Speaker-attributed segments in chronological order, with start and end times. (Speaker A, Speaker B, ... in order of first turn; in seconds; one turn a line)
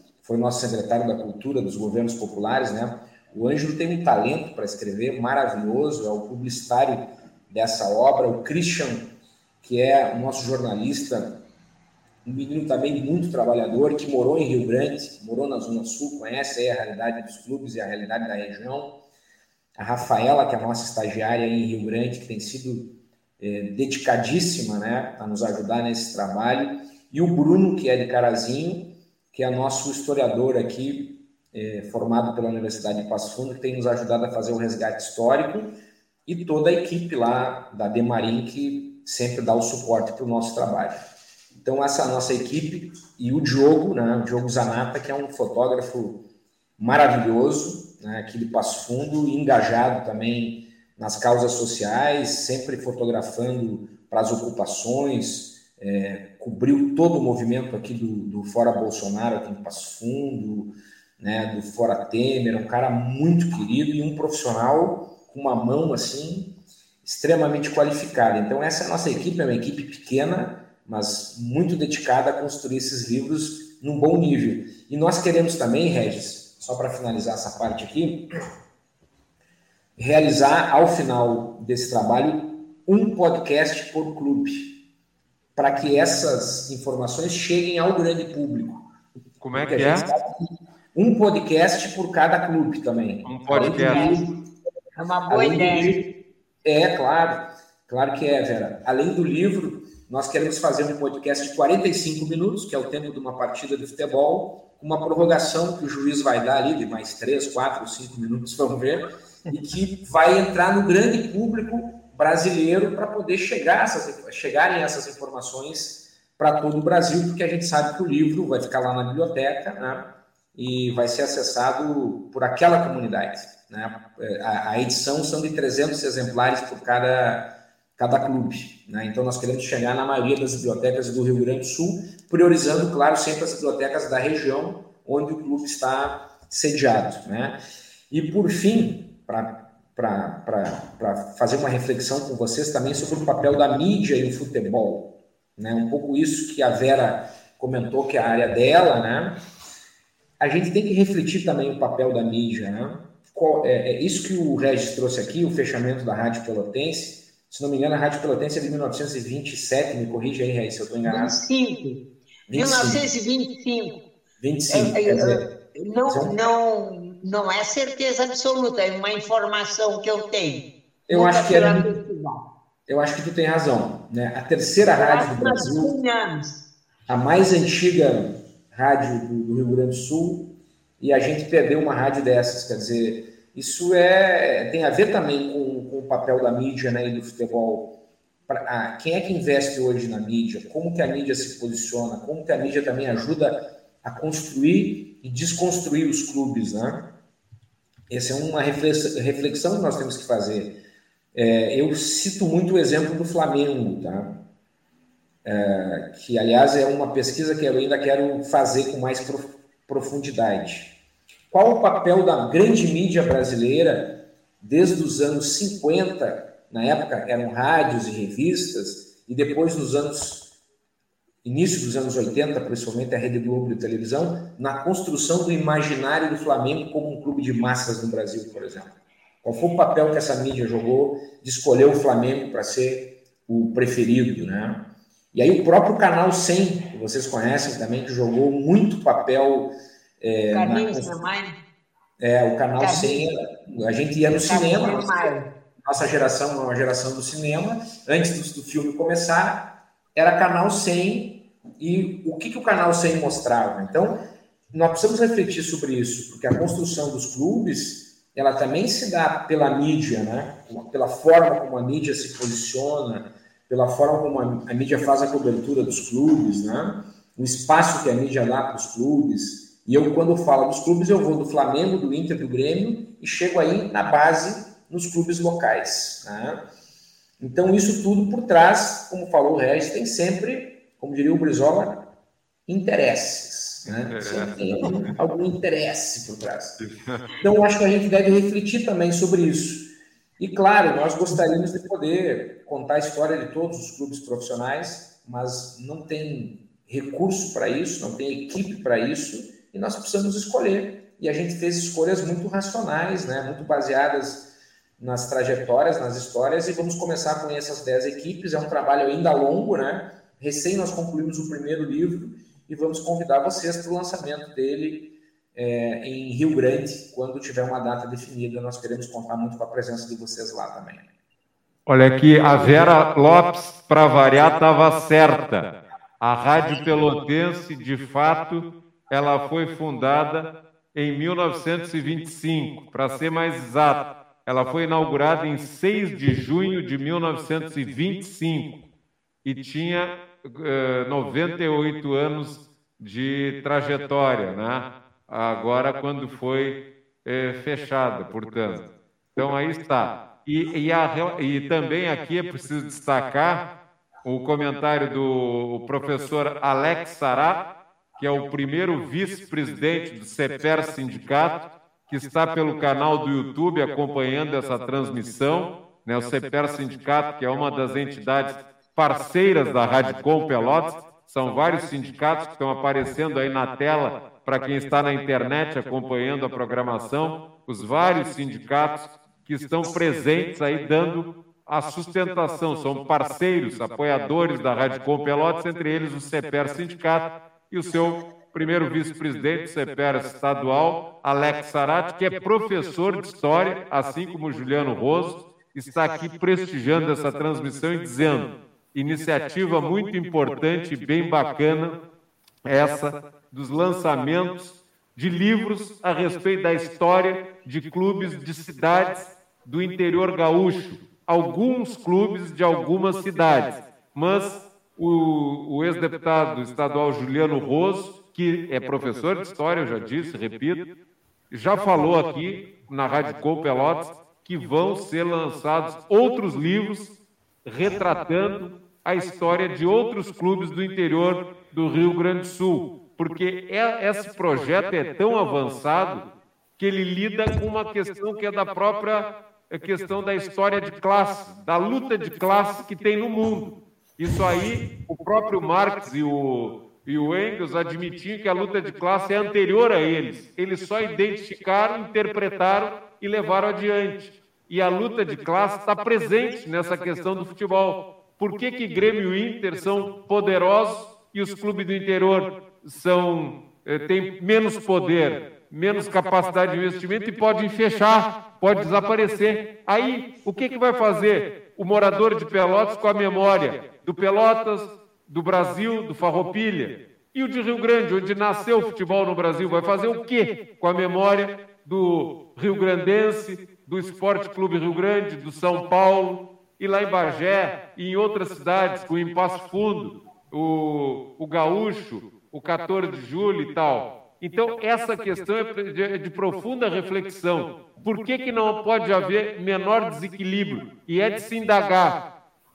Speaker A: 0.2-9.1
Speaker A: 9.6-11.3
Speaker A: 12.2-18.9
Speaker A: 19.8-35.7
Speaker A: 36.2-46.2
Speaker A: 46.8-78.2
Speaker A: 80.0-84.8
Speaker A: 85.5-88.8
Speaker B: 89.4-90.0
Speaker A: 89.5-94.3
Speaker B: 93.2-94.1
Speaker C: 93.5-94.2
Speaker C: 95.0-96.0
Speaker A: 95.3-96.1
Speaker A: 96.6-137.6
Speaker A: 138.1-149.4
Speaker A: 150.4-161.4
Speaker C: 161.1-162.0
Speaker A: 162.5-163.1
Speaker C: 162.5-164.0
Speaker A: 164.4-165.4
Speaker C: 164.7-172.4
Speaker A: 166.1-166.4
Speaker A: 171.1-172.0
Speaker A: 172.9-175.9
Speaker C: 175.0-176.6
Speaker A: 177.1-187.9
Speaker A: 188.5-197.1
Speaker A: 198.1-200.7
Speaker A: 201.3-204.3
Speaker A: 205.4-210.9
Speaker A: 211.5-220.4
Speaker A: 221.4-241.3
Speaker C: 240.5-241.6
Speaker A: 242.2-245.3
Speaker C: 242.8-243.3
Speaker C: 244.4-245.5
Speaker A: 245.8-254.2
Speaker A: 254.7-276.6
Speaker A: 277.4-282.0
Speaker A: 282.7-286.8
Speaker B: 284.1-284.9
Speaker B: 286.8-287.3
Speaker A: 287.4-321.0
Speaker B: 321.9-338.8
Speaker B: 339.4-353.7
Speaker B: 354.2-357.6
Speaker B: 358.2-401.9
Speaker B: 402.6-420.8
Speaker B: 421.5-427.1
Speaker B: 427.6-436.3
Speaker B: 436.8-502.2